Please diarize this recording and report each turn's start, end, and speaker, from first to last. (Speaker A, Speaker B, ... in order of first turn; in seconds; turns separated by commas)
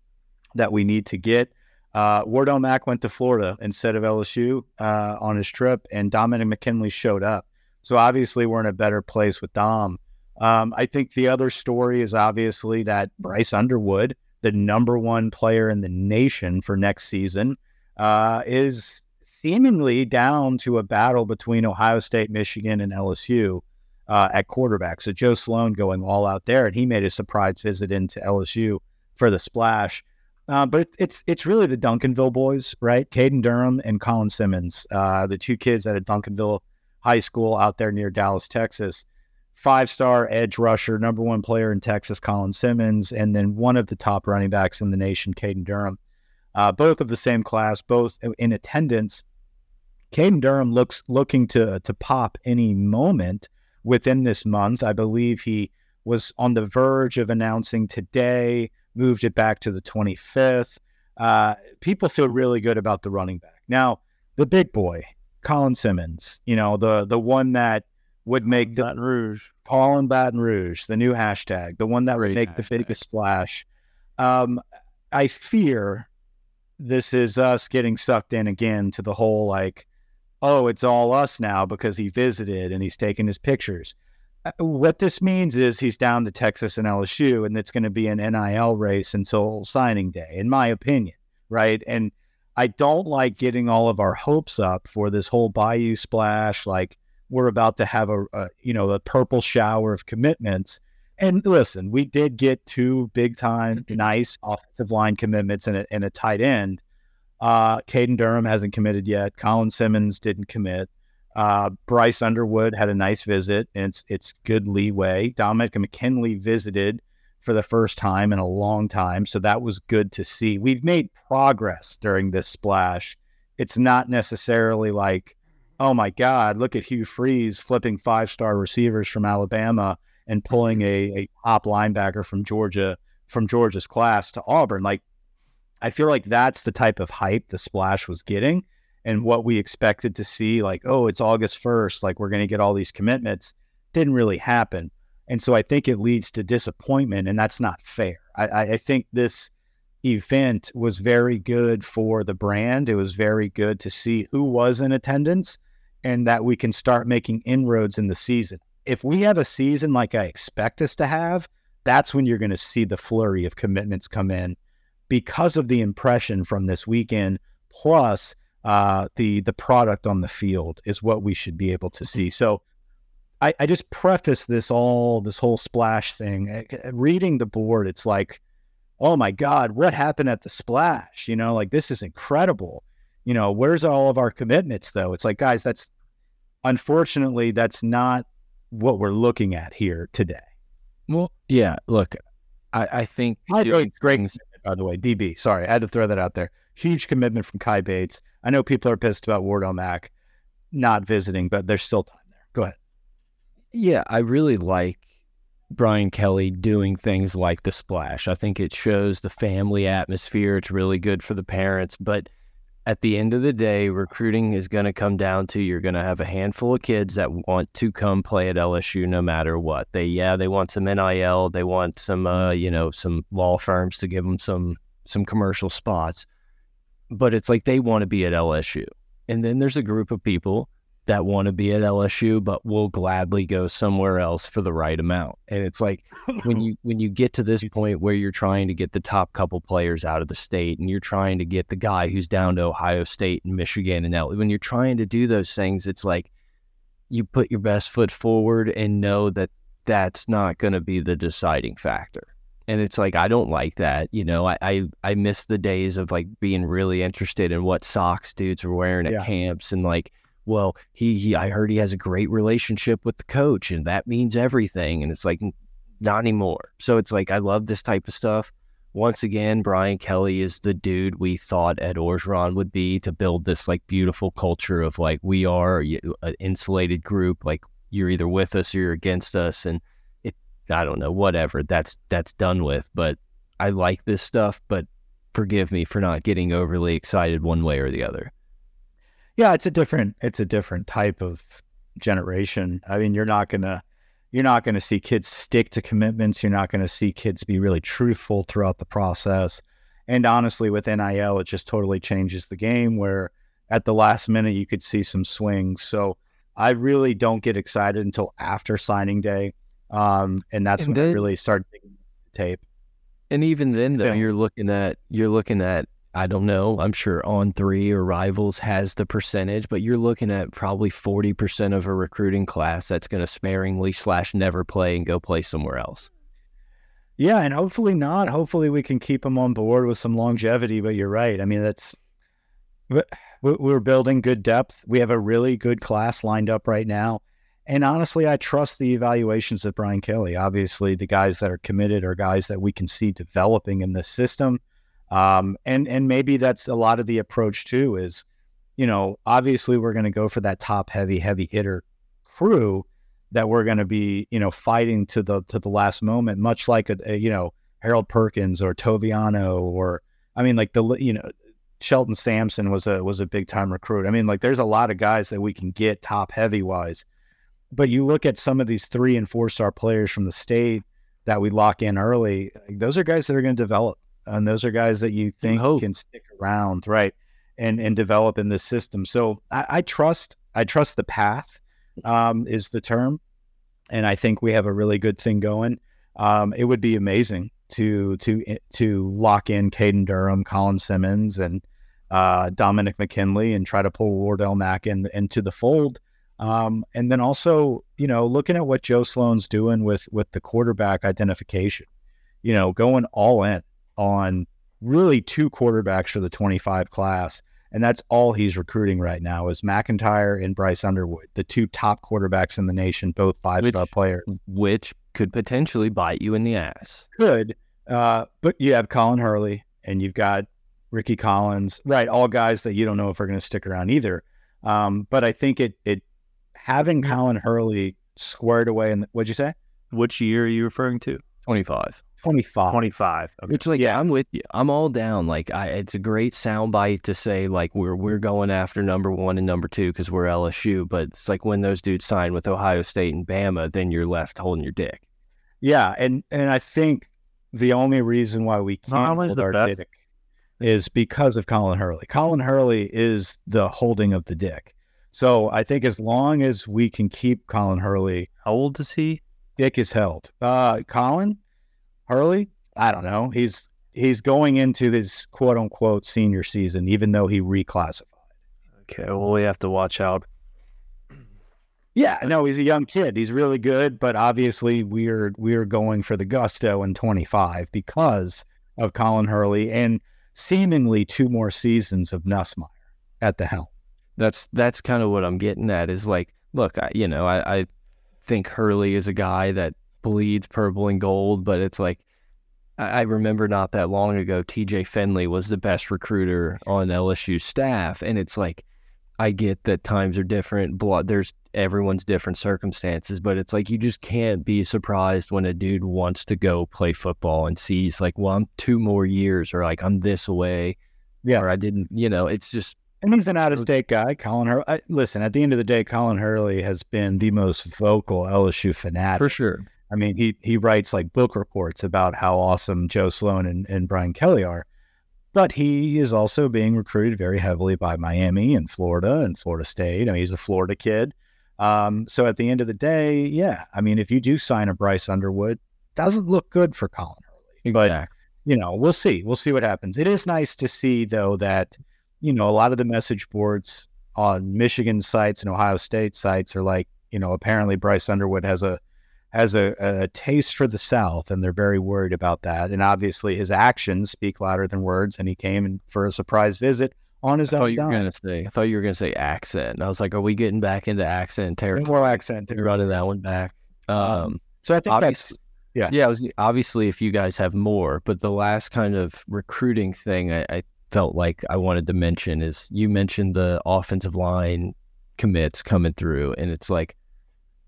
Speaker A: 0.5-46.0, Speaker A: 46.5-49.2, Speaker A: 50.1-68.9, Speaker B: 68.5-69.5, Speaker A: 69.6-73.6, Speaker A: 74.2-74.6, Speaker A: 75.1-76.1, Speaker A: 76.8-79.8, Speaker A: 80.4-106.8, Speaker A: 107.4-135.0, Speaker A: 135.8-149.5, Speaker A: 150.0-164.6, Speaker A: 165.1-172.6, Speaker A: 173.4-178.4, Speaker A: 179.0-185.9, Speaker A: 186.6-190.4, Speaker C: 191.1-192.2, Speaker C: 192.7-194.4, Speaker A: 193.5-200.1, Speaker A: 200.7-202.8, Speaker C: 203.7-205.0, Speaker C: 205.7-212.3, Speaker C: 212.8-226.3, Speaker C: 227.1-246.3, Speaker A: 236.3-236.6, Speaker C: 247.1-288.3, Speaker A: 289.4-312.6, Speaker C: 310.8-311.2, Speaker C: 313.3-326.1, Speaker A: 327.2-332.0, Speaker A: 332.9-348.2, Speaker A: 348.8-361.3, Speaker A: 361.8-367.0, Speaker A: 367.7-383.2, Speaker C: 375.4-375.9, Speaker A: 383.9-401.9, Speaker A: 402.4-414.2, Speaker C: 413.6-417.1, Speaker A: 417.1-426.0, Speaker A: 426.5-429.5, Speaker B: 429.9-431.2, Speaker C: 431.4-432.0, Speaker A: 432.2-432.8, Speaker B: 432.7-433.6, Speaker C: 433.5-445.0, Speaker A: 445.6-449.9, Speaker B: 448.9-449.8, Speaker A: 450.6-458.3, Speaker B: 458.4-459.2, Speaker A: 459.6-461.4, Speaker A: 462.1-468.1, Speaker B: 468.9-470.2, Speaker A: 471.9-483.7, Speaker C: 484.2-487.7, Speaker C: 488.2-492.0, Speaker C: 492.8-498.6, Speaker C: 499.2-510.8, Speaker C: 511.4-512.8, Speaker A: 513.0-519.4, Speaker C: 519.2-519.6, Speaker A: 519.9-524.6, Speaker A: 525.3-537.9, Speaker C: 537.6-538.1, Speaker A: 538.4-548.8, Speaker A: 549.3-558.0, Speaker C: 557.5-565.4, Speaker A: 561.7-562.9, Speaker A: 564.0-565.9, Speaker C: 565.9-576.9